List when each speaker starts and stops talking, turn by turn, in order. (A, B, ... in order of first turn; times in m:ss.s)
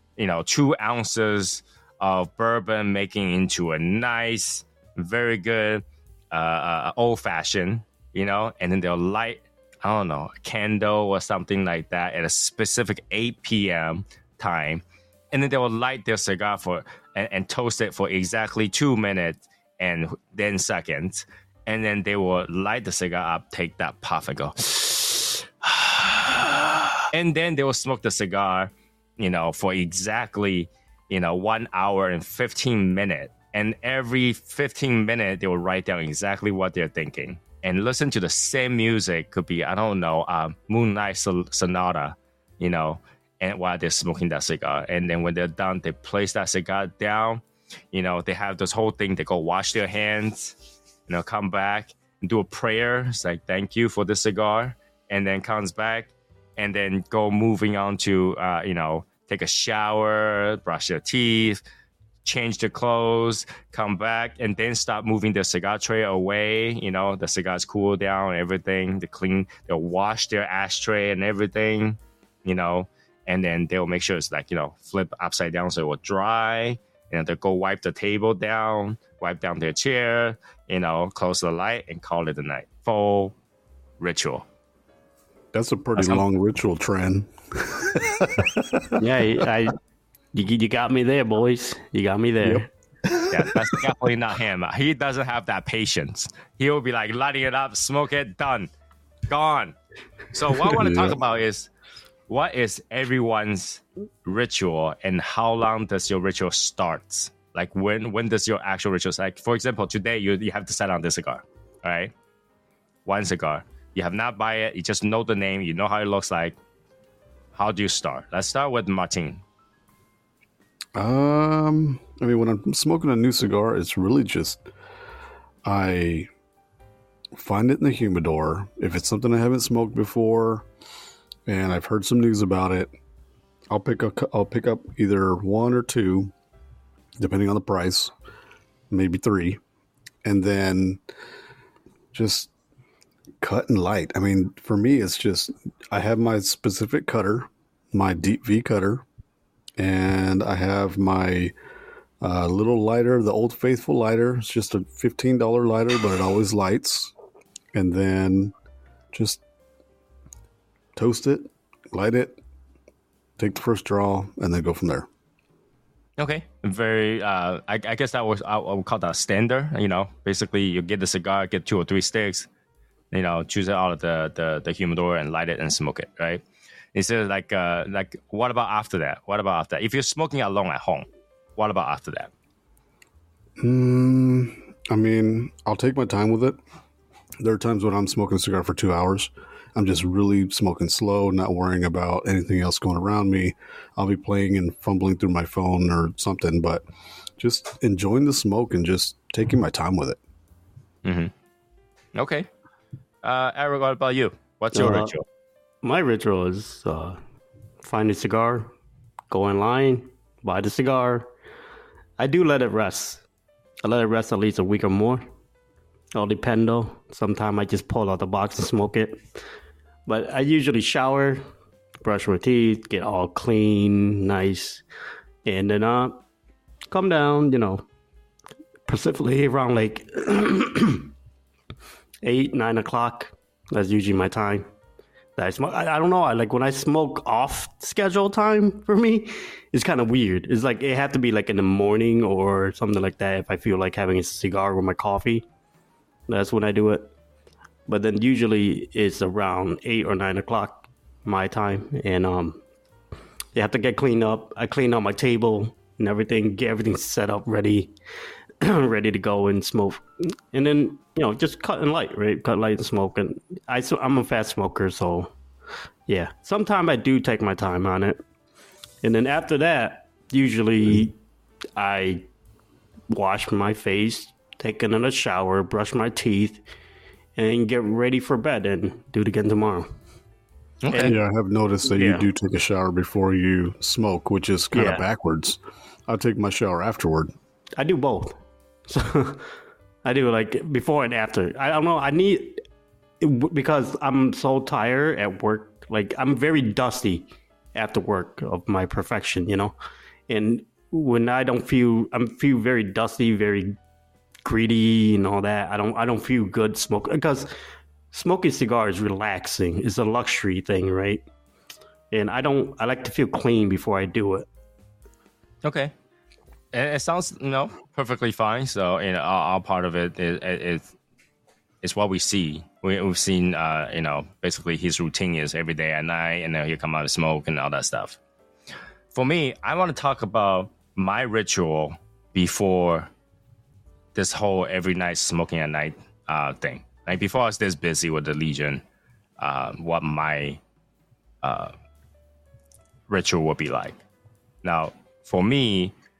0:00.2-0:50.5 A
0:51.1-1:01.6 A
1:02.2-1:23.3 A
1:24.0-1:24.4 A
1:25.5-1:29.0 B
1:26.0-1:26.2 A
1:29.0-1:29.7 C
1:30.3-1:32.7 C
1:32.4-1:33.8 B
1:33.3-1:38.7 A
1:39.3-1:39.8 A
1:40.3-1:41.7 A
1:40.8-1:41.2 B
1:42.3-1:52.1 A
1:53.0-1:56.6 A
1:57.6-1:59.4 A
2:00.9-2:04.6 B
2:05.6-2:06.3 B
2:07.3-2:10.6 B
2:11.5-2:12.9 B
2:13.7-2:16.3 B
2:17.2-2:18.1 B
2:18.9-2:19.6 B
2:20.2-2:21.0 B
2:22.1-2:22.5 B
2:23.4-2:29.0 B
2:29.8-2:31.5 B
2:32.2-2:37.1 B
2:37.7-2:38.5 B
2:39.1-2:39.4 B
2:40.9-2:42.4 B
2:43.4-2:45.1 B
2:46.2-2:52.5 A
2:53.1-2:56.4 A
2:56.9-3:02.3 A
3:03.6-3:06.6 B
3:07.4-3:16.8 B
3:17.4-3:20.2 B
3:21.0-3:21.3 A
3:22.1-3:22.5 A
3:23.2-3:25.2 A
3:24.7-3:25.1 C
3:25.8-3:27.2 C
3:27.8-3:28.7 C
3:29.3-3:31.3 C
3:32.2-3:33.2 C
3:33.8-3:35.2 C
3:36.1-3:39.2 C
3:40.0-3:41.4 C
3:42.0-3:44.8 C
3:45.4-3:46.2 C
3:46.9-3:47.8 C
3:48.9-3:51.1 C
3:52.2-3:54.7 C
3:55.4-4:05.4 C
4:06.3-4:07.1 C
4:07.9-4:12.6 C
4:13.5-4:17.9 C
4:18.6-4:25.3 C
4:26.1-4:28.2 C
4:29.0-4:31.2 C
4:31.8-4:32.2 C
4:33.1-4:36.6 C
4:37.4-4:39.9 C
4:40.8-4:41.1 A
4:40.9-4:41.2 C
4:41.0-4:47.3 B
4:41.9-4:42.2 C
4:44.7-4:45.0 C
4:47.8-4:49.5 C
4:50.0-4:52.6 C
4:53.2-4:59.7 C
5:00.3-5:03.8 C
5:04.4-5:07.5 C
5:08.1-5:11.2 C
5:12.1-5:14.5 C
5:15.6-5:15.9 A
5:16.7-5:20.9 A
5:21.8-5:28.2 A
5:29.1-5:33.1 A
5:34.1-5:38.8 A
5:39.4-5:40.6 A
5:41.4-5:41.7 A
5:43.1-5:44.0 A
5:44.6-5:45.9 A